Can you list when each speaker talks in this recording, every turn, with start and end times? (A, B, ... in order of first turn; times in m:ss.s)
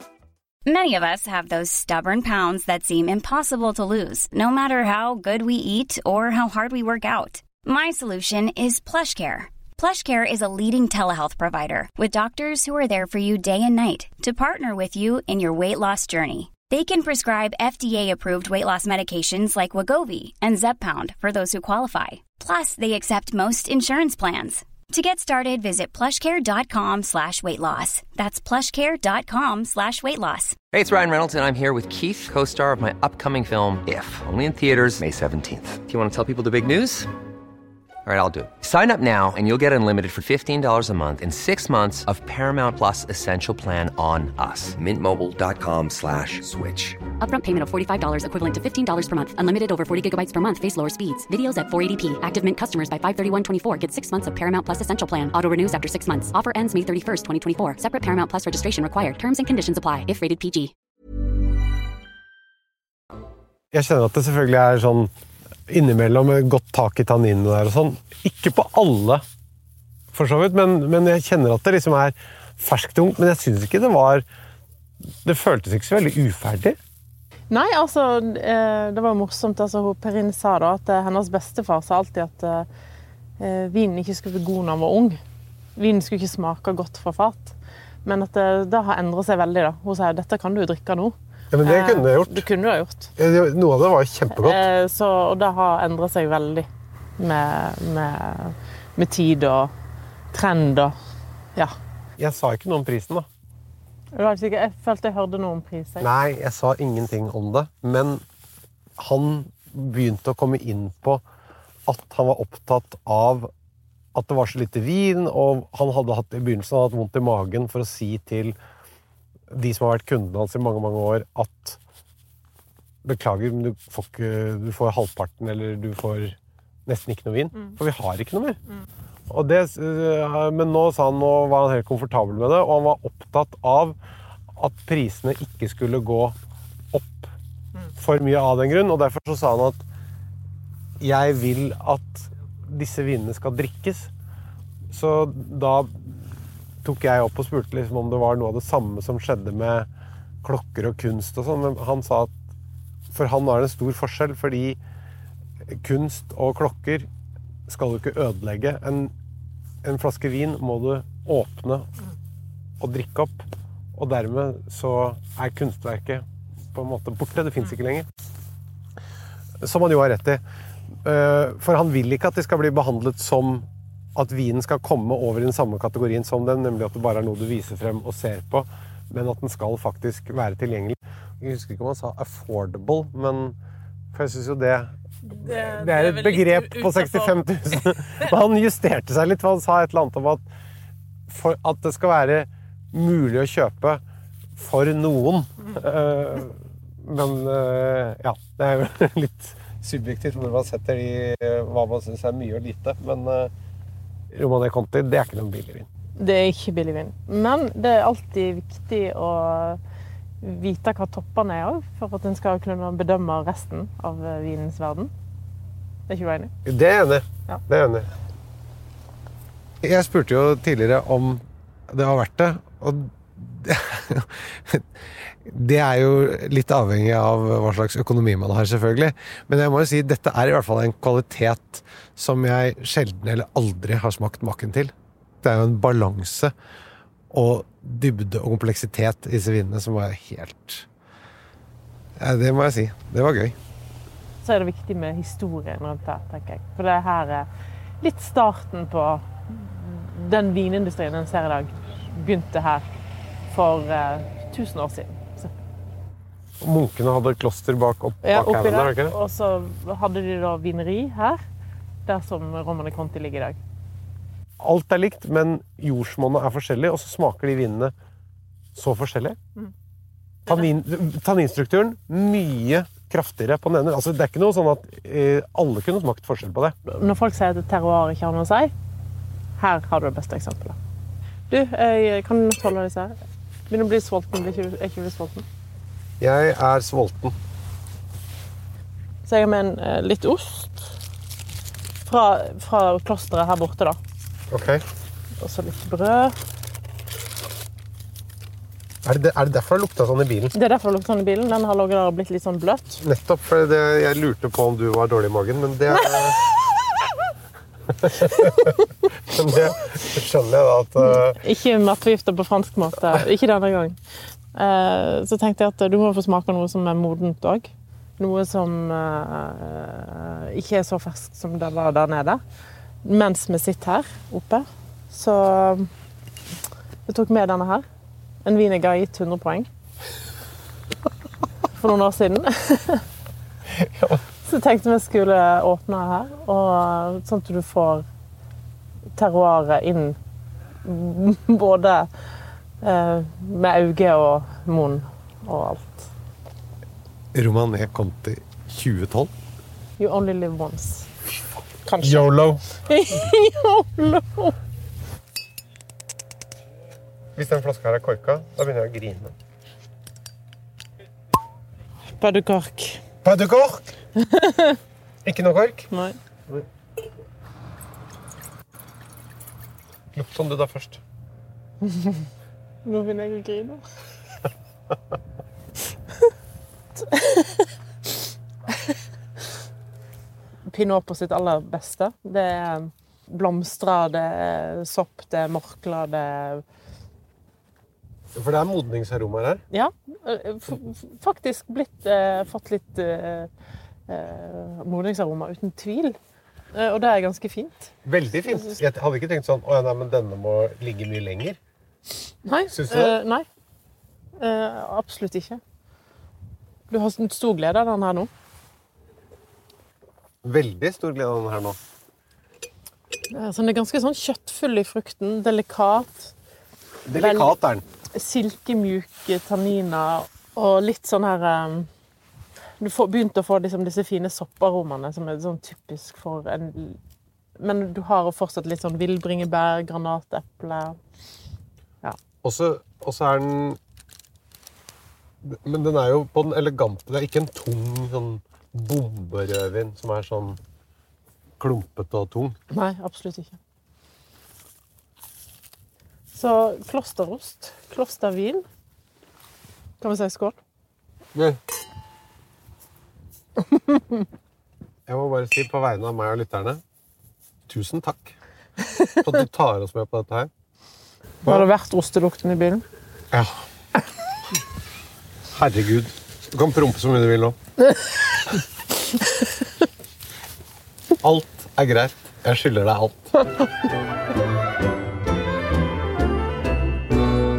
0:00.6-0:30.6 A
0:30.7-0:37.1 B
0:38.0-0:47.0 B
0:47.2-1:00.7 C
1:03.7-1:05.1 D
1:05.7-1:09.2 D
1:10.1-1:14.2 D
1:15.2-1:16.8 D
1:17.5-1:22.7 E
1:23.4-1:25.2 E
1:25.8-1:33.1 E
1:31.5-1:32.5 D
1:33.2-1:34.6 D
1:34.3-1:39.7 E
1:40.3-1:40.9 E
1:42.2-1:43.3 D
1:44.1-1:46.1 E
1:46.0-1:48.2 D
1:49.0-1:51.2 D
1:51.9-1:53.5 D
1:54.1-1:58.6 D
1:59.5-2:01.8 D
2:03.0-2:08.6 D
2:09.3-2:14.0 D
2:14.5-2:16.4 D
2:16.9-2:17.3 D
2:18.0-2:19.8 D
2:21.0-2:24.1 D
2:24.9-2:26.3 D
2:26.8-2:29.9 D
2:30.4-2:32.3 D
2:33.1-2:34.8 D
2:35.7-2:37.1 D
2:37.7-2:39.1 D
2:39.8-2:41.9 D
2:42.8-2:48.1 D
2:49.6-2:50.4 D
2:51.0-3:03.6 D
3:04.1-3:10.4 D
3:05.3-3:08.3 E
3:11.3-3:14.0 D
3:14.5-3:23.5 D
3:24.3-3:25.9 D
3:26.2-3:29.8 E
3:30.4-3:35.1 E
3:36.1-3:36.5 E
3:36.6-3:38.1 D
3:39.8-3:56.5 D
3:57.3-4:00.9 D
4:02.2-4:03.6 D
4:04.4-4:07.5 E
4:08.0-4:12.8 E
4:13.5-4:15.5 E
4:16.6-4:19.2 D
4:18.2-4:21.4 E
4:22.0-4:23.6 E
4:24.6-4:27.9 D
4:28.7-4:29.4 D
4:30.4-4:36.8 D
4:36.9-4:38.7 E
4:39.6-4:40.8 E
4:41.5-4:43.2 E
4:43.7-4:45.4 E
4:46.2-4:47.4 D
4:49.2-4:50.9 E
4:52.0-4:54.0 E
4:54.5-4:54.8 D
4:55.4-4:56.3 E
4:59.0-5:00.5 D
5:00.5-5:03.0 E
5:03.0-5:06.4 D
5:08.0-5:08.7 D
5:08.2-5:08.8 E
5:09.3-5:11.4 D
5:11.0-5:14.0 E
5:14.5-5:22.4 E
5:23.0-5:25.9 E
5:27.1-5:27.8 E
5:28.4-5:29.7 E
5:31.7-5:33.0 E
5:33.7-5:34.2 D
5:34.4-5:38.0 E
5:39.2-5:40.2 E
5:40.8-5:42.1 E
5:42.8-5:46.1 E
5:47.3-5:49.3 D
5:50.0-5:51.1 E
5:51.8-5:54.6 E
5:52.0-5:52.6 D
5:57.3-5:59.3 D
6:02.1-6:03.0 E
6:03.2-6:03.9 D
6:04.2-6:04.8 E
6:05.2-6:05.9 D
6:10.1-6:11.0 D
6:11.8-6:12.2 E
6:12.8-6:13.8 E
6:17.0-6:17.7 E
6:20.7-6:26.6 E
6:28.3-6:29.6 D
6:29.7-6:33.5 E
6:34.1-6:36.2 E
6:36.7-6:37.9 E
6:38.0-6:41.6 D
6:38.5-6:38.8 E
6:42.4-6:43.4 E
6:42.7-6:43.2 D
6:44.4-6:45.6 E
6:46.9-6:48.3 E
6:50.4-6:51.8 D
6:53.3-6:56.3 E
6:57.0-6:57.8 D
6:57.1-6:57.5 E
6:58.1-7:01.9 E
7:02.8-7:07.0 E
7:07.6-7:11.0 E
7:12.4-7:13.8 D
7:15.4-7:20.6 D
7:21.6-7:22.6 D
7:22.7-7:23.6 E
7:26.3-7:28.6 E
7:30.0-7:30.6 E
7:31.3-7:31.6 D
7:35.0-7:36.8 D
7:37.7-7:38.4 D
7:39.2-7:40.5 D
7:41.4-7:42.8 E
7:43.3-7:43.6 D
7:45.5-7:47.6 D
7:51.2-7:53.5 D